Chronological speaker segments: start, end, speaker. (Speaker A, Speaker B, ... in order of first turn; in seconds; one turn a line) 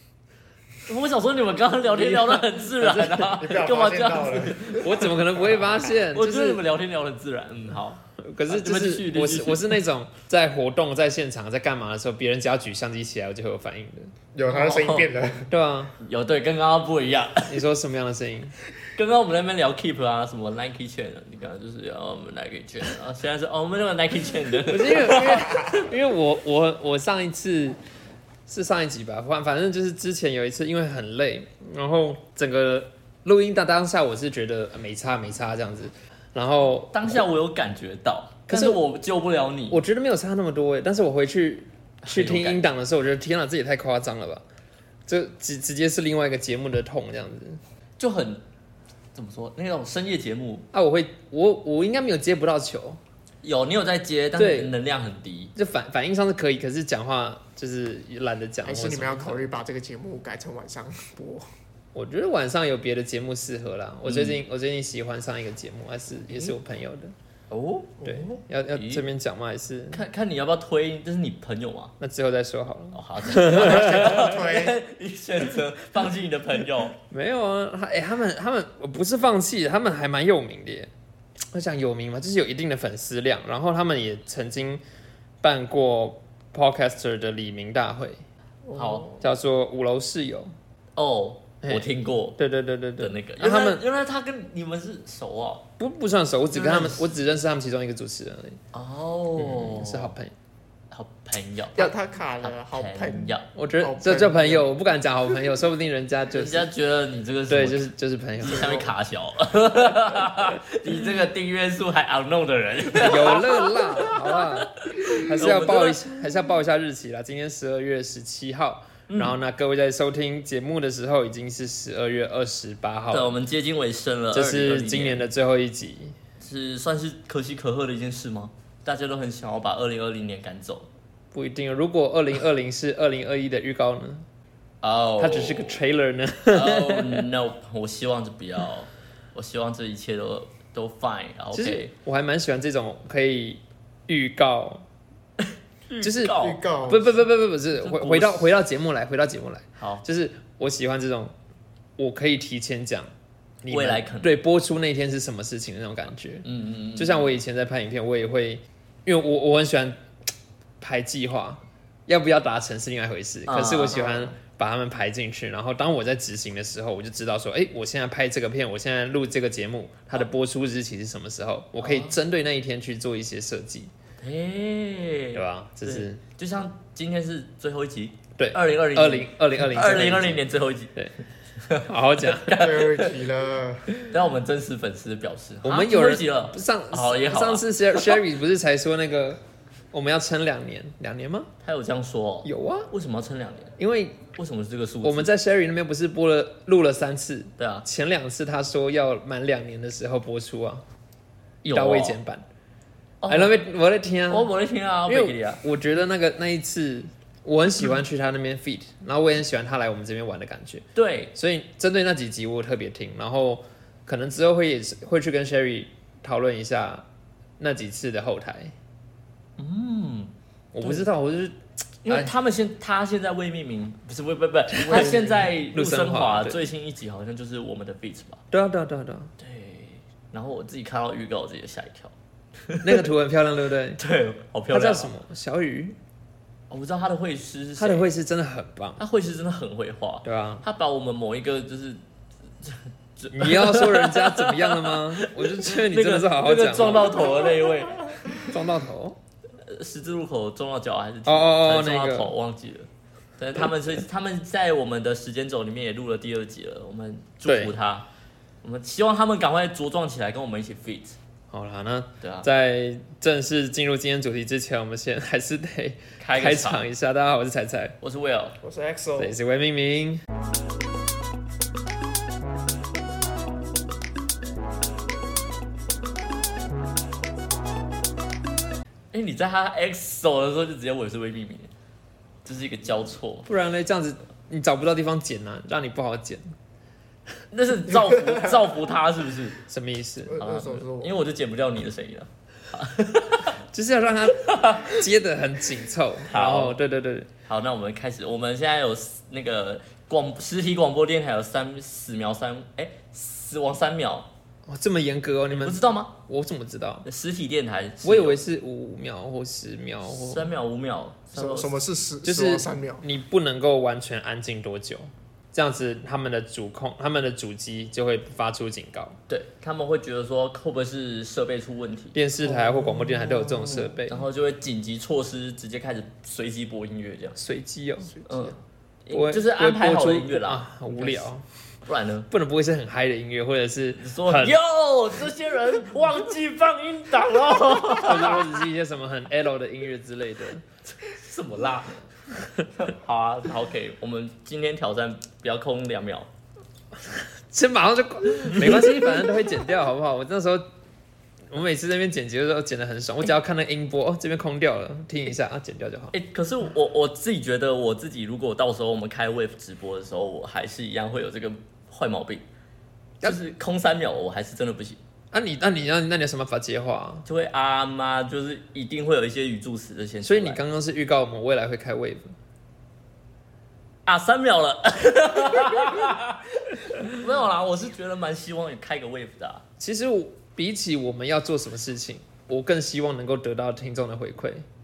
Speaker A: 0.9-9.8
Speaker B: 1.9-3.5
Speaker C: 3.4-4.9
Speaker B: 4.6-6.6
Speaker B: 8.2-14.1
Speaker C: 14.3-15.5
Speaker A: 14.5-15.1
Speaker B: 15.5-16.0
Speaker A: 16.0-17.6
Speaker B: 17.5-18.5
Speaker A: 18.8-25.8
Speaker B: 24.7-27.8
Speaker B: 28.5-37.3
Speaker A: 36.9-39.8
Speaker B: 38.5-38.8
Speaker B: 39.7-44.4
Speaker A: 42.0-42.6
Speaker B: 45.1-47.6
Speaker A: 48.0-48.4
Speaker A: 49.1-50.7
Speaker B: 50.7-53.0
Speaker A: 53.4-55.5
Speaker B: 54.4-54.7
Speaker B: 55.6-59.5
Speaker C: 58.6-61.5
Speaker B: 62.0-67.1
Speaker A: 64.1-64.4
Speaker A: 67.5-69.0
Speaker B: 68.0-70.0
Speaker A: 69.9-72.0
Speaker B: 72.0-74.3
Speaker A: 72.9-77.0
Speaker C: 73.5-74.8
Speaker B: 77.1-80.9
Speaker B: 81.5-84.8
Speaker B: 85.4-88.2
Speaker A: 88.7-89.1
Speaker B: 89.1-90.5
Speaker A: 91.0-92.4
Speaker B: 92.4-93.8
Speaker A: 93.0-95.7
Speaker B: 95.8-98.6
Speaker A: 96.5-97.0
Speaker A: 98.7-100.1
Speaker B: 99.4-100.3
Speaker A: 100.9-103.5
Speaker C: 101.8-104.7
Speaker B: 103.5-106.7
Speaker A: 106.3-116.2
Speaker B: 107.5-108.8
Speaker C: 108.5-108.9
Speaker B: 113.0-123.4
Speaker A: 119.1-119.4
Speaker A: 123.1-125.3
Speaker B: 124.3-126.2
Speaker A: 126.4-130.9
Speaker B: 131.3-134.2
Speaker A: 134.8-135.8
Speaker B: 135.2-137.2
Speaker A: 136.5-141.9
Speaker B: 141.5-144.8
Speaker A: 145.9-146.6
Speaker B: 146.0-151.3
Speaker C: 146.4-147.1
Speaker A: 147.8-148.6
Speaker A: 149.8-150.1
Speaker B: 152.0-153.1
Speaker B: 153.6-160.0
Speaker A: 153.7-154.4
Speaker A: 156.4-157.3
Speaker B: 160.8-173.9
Speaker A: 163.5-164.3
Speaker A: 171.8-172.2
Speaker A: 174.2-181.0
Speaker B: 175.3-176.2
Speaker B: 178.4-180.4
Speaker A: 181.6-183.2
Speaker B: 181.8-182.6
Speaker C: 182.6-183.9
Speaker A: 184.0-188.2
Speaker B: 185.6-189.4
Speaker B: 189.9-191.5
Speaker A: 191.6-193.7
Speaker B: 192.4-192.9
Speaker B: 193.8-194.2
Speaker A: 194.3-195.3
Speaker B: 195.0-200.8
Speaker A: 197.6-197.9
Speaker A: 201.6-202.2
Speaker B: 201.7-202.4
Speaker A: 203.2-203.5
Speaker B: 203.3-204.5
Speaker A: 204.3-205.6
Speaker B: 205.1-217.1
Speaker A: 210.9-211.3
Speaker B: 217.6-218.7
Speaker A: 219.6-221.1
Speaker B: 220.7-221.6
Speaker A: 222.1-228.4
Speaker B: 224.8-225.2
Speaker C: 224.8-225.5
Speaker B: 225.7-226.7
Speaker B: 228.5-229.3
Speaker A: 229.4-232.1
Speaker A: 232.7-233.1
Speaker B: 232.8-234.0
Speaker A: 234.0-235.1
Speaker B: 234.7-236.0
Speaker A: 236.7-238.1
Speaker B: 237.8-239.0
Speaker A: 239.0-242.0
Speaker B: 240.2-240.7
Speaker A: 242.6-248.5
Speaker B: 243.3-247.2
Speaker B: 248.4-249.2
Speaker A: 249.6-258.1
Speaker B: 251.3-252.3
Speaker B: 257.5-257.7
Speaker A: 258.6-261.2
Speaker B: 261.5-268.0
Speaker A: 262.2-262.5
Speaker A: 266.2-266.9
Speaker A: 268.0-268.6
Speaker C: 268.6-269.3
Speaker B: 269.2-270.2
Speaker A: 279.1-281.7
Speaker A: 282.4-283.5
Speaker B: 283.5-286.5
Speaker A: 287.5-289.6
Speaker B: 289.7-290.4
Speaker C: 290.3-291.2
Speaker A: 290.4-293.6
Speaker B: 293.6-297.3
Speaker A: 294.4-295.0
Speaker A: 296.3-296.8
Speaker A: 297.5-304.3
Speaker B: 304.7-307.1
Speaker A: 305.5-306.1
Speaker A: 307.1-308.4
Speaker B: 308.0-310.5
Speaker A: 310.1-311.8
Speaker C: 311.4-313.0
Speaker B: 312.2-319.2
Speaker A: 319.3-322.2
Speaker B: 322.1-324.2
Speaker C: 322.8-323.6
Speaker A: 323.3-327.4
Speaker B: 327.4-328.1
Speaker C: 328.1-328.6
Speaker A: 328.3-331.3
Speaker B: 329.1-331.4
Speaker A: 331.9-332.3
Speaker B: 332.3-334.6
Speaker A: 334.0-338.6
Speaker B: 338.0-340.6
Speaker A: 341.0-342.0
Speaker A: 342.7-346.3
Speaker B: 347.1-350.6
Speaker B: 351.5-356.1
Speaker A: 356.1-362.5
Speaker A: 363.2-365.0
Speaker B: 365.3-367.3
Speaker A: 367.3-370.6
Speaker B: 370.2-372.3
Speaker A: 374.1-379.6
Speaker B: 379.8-384.6